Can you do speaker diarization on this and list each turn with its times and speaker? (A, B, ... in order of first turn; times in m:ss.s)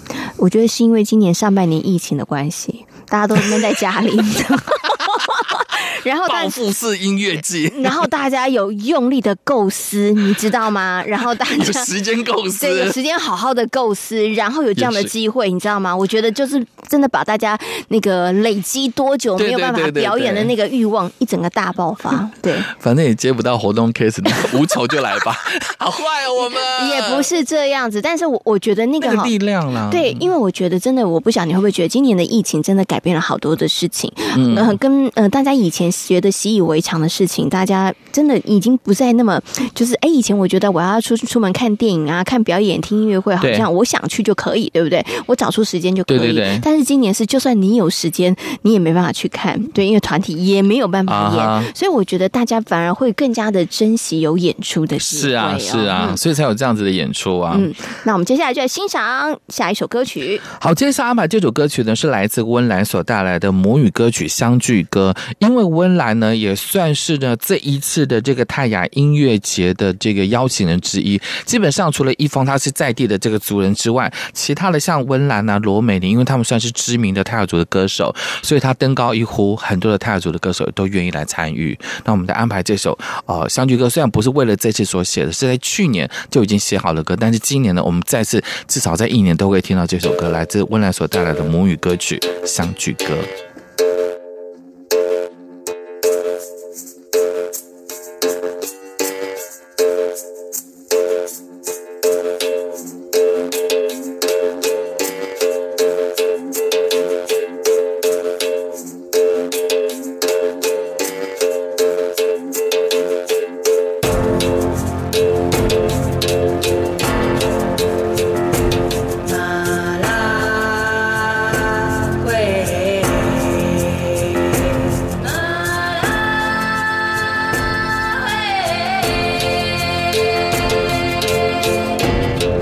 0:00.4-0:06.6 A
0:06.2-0:08.0 B
0:07.7-0:11.9 A
0:11.5-0:13.0 B
0:12.6-0:22.7 A
0:14.8-0:15.1 B
0:19.4-0:20.5 B
0:22.7-0:27.3 B
0:26.4-0:29.3 A
0:29.0-0:30.3 B
0:29.9-0:56.2 A
0:34.3-0:34.8 B
0:43.4-0:43.7 B
0:46.1-0:46.6 B
0:51.1-0:51.7 B
0:55.0-0:57.7 B
0:57.5-1:00.4 A
1:00.6-1:33.3 B